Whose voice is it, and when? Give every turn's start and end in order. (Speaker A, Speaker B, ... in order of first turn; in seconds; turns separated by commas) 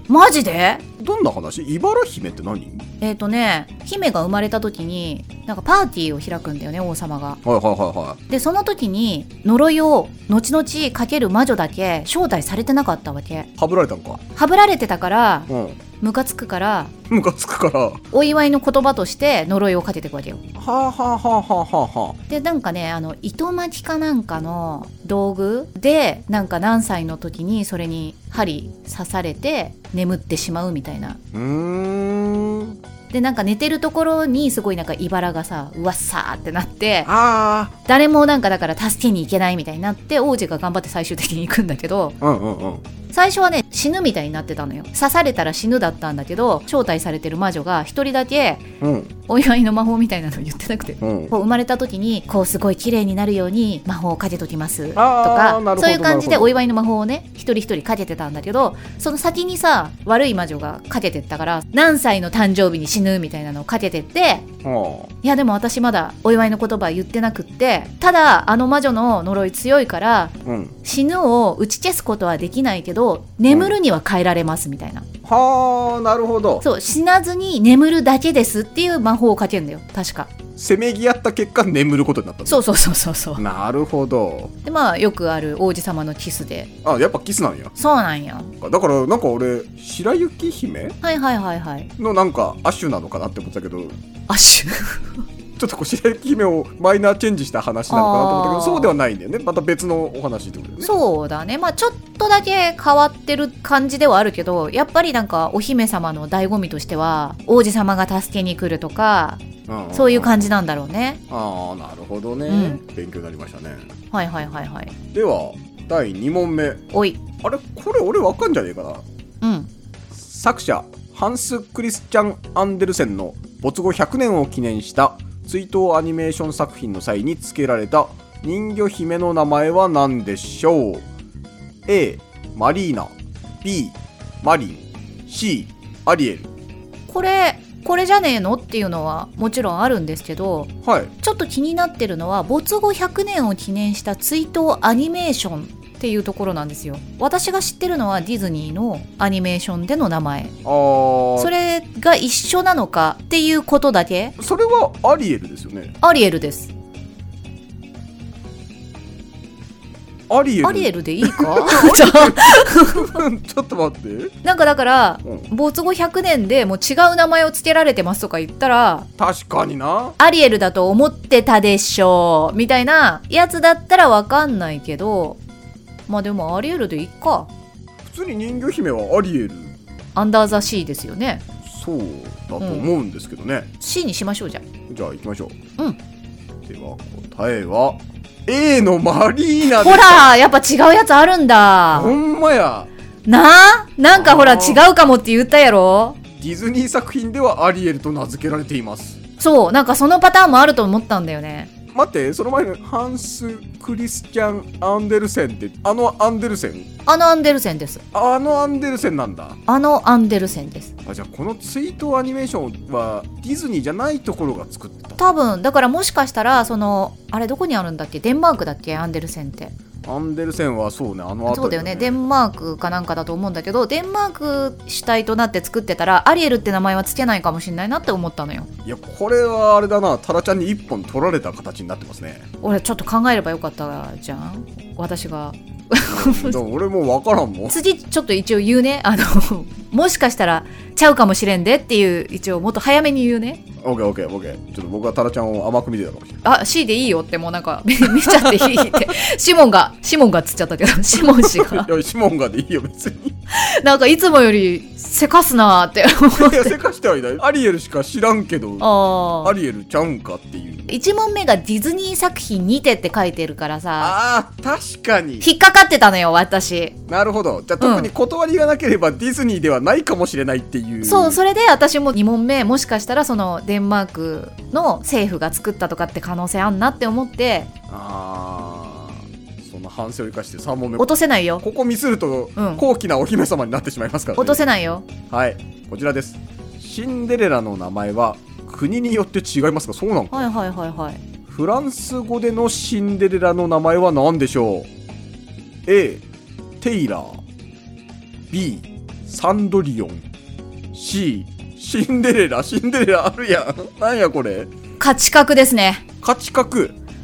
Speaker A: 0.1-0.8, Speaker B: 1.0-2.9, Speaker A: 3.0-7.4, Speaker B: 7.4-8.2, Speaker A: 8.3-13.5, Speaker B: 13.6-14.2, Speaker A: 14.3-15.5, Speaker B: 15.5-15.8, Speaker A: 16.0-16.9, Speaker B: 17.1-18.0, Speaker A: 18.1-20.4, Speaker B: 20.6-22.2, Speaker A: 22.3-31.2, Speaker B: 31.3-32.8, Speaker A: 33.1-37.1, Speaker B: 37.1-37.8, Speaker A: 37.9-42.2, Speaker B: 42.2-42.9, Speaker A: 43.1-48.7, Speaker B: 48.8-49.1, Speaker A: 49.3-64.5, Speaker B: 51.0-51.3, Speaker B: 55.0-56.5, Speaker B: 64.6-65.1, Speaker A: 65.2-75.1, Speaker B: 70.5-70.8, Speaker B: 73.5-73.8, Speaker B: 75.2-76.7, Speaker A: 76.6-80.3, Speaker B: 80.6-82.7, Speaker A: 82.5-83.4, Speaker B: 83.4-84.5, Speaker A: 84.7-86.7, Speaker B: 86.8-87.7, Speaker A: 87.8-88.5, Speaker B: 88.6-91.0, Speaker A: 91.0-91.9, Speaker B: 92.0-94.0, Speaker A: 94.3-95.1, Speaker B: 95.6-100.9, Speaker A: 97.9-98.9, Speaker A: 100.8-111.2, Speaker B: 109.7-110.5, Speaker B: 111.3-113.9, Speaker A: 112.5-112.8, Speaker A: 114.1-114.9, Speaker B: 115.1-116.8, Speaker A: 116.9-117.2, Speaker B: 117.4-119.0, Speaker A: 119.4-119.7, Speaker B: 120.1-131.1, Speaker B: 131.9-136.5, Speaker A: 137.1-150.6, Speaker B: 140.8-141.1, Speaker B: 150.7-151.5, Speaker A: 151.4-154.4, Speaker B: 154.4-155.9, Speaker A: 156.0-156.7, Speaker B: 160.3-164.3, Speaker A: 160.6-163.2, Speaker A: 164.4-169.1, Speaker B: 169.2-170.2, Speaker A: 170.2-175.4, Speaker A: 176.1-177.5, Speaker B: 178.1-179.8, Speaker A: 180.2-181.4, Speaker B: 181.6-183.7, Speaker A: 182.6-182.9, Speaker A: 183.8-184.7, Speaker B: 184.9-185.6, Speaker B: 186.6-190.3, Speaker A: 189.7-192.2, Speaker B: 191.9-192.9, Speaker A: 193.3-196.2, Speaker B: 194.1-194.8, Speaker B: 196.4-199.2, Speaker A: 199.4-201.7, Speaker B: 201.9-206.9, Speaker A: 207.1-208.0, Speaker B: 208.1-209.6, Speaker A: 209.7-210.9, Speaker B: 211.1-215.2, Speaker A: 215.2-219.7, Speaker B: 220.0-222.2, Speaker A: 221.5-228.7, Speaker B: 228.8-232.5, Speaker A: 232.6-236.6, Speaker B: 236.1-237.8, Speaker A: 237.7-243.6, Speaker B: 243.8-246.4, Speaker A: 246.4-251.9, Speaker B: 248.1-248.9, Speaker B: 251.2-253.3, Speaker A: 253.5-256.8, Speaker B: 256.3-260.9, Speaker A: 258.8-259.6, Speaker A: 260.9-264.1, Speaker B: 264.0-265.5, Speaker A: 265.4-267.0, Speaker B: 267.1-271.4, Speaker A: 267.8-268.1, Speaker A: 271.0-277.7, Speaker B: 277.9-281.1, Speaker A: 281.0-281.6, Speaker B: 281.6-284.6, Speaker A: 282.6-282.8, Speaker A: 284.4-285.1, Speaker B: 285.3-290.5, Speaker A: 290.3-291.2, Speaker B: 291.5-294.9, Speaker B: 295.9-296.2, Speaker B: 296.8-297.4, Speaker B: 298.5-300.3, Speaker B: 300.9-304.7, Speaker A: 305.0-306.0, Speaker B: 306.2-307.0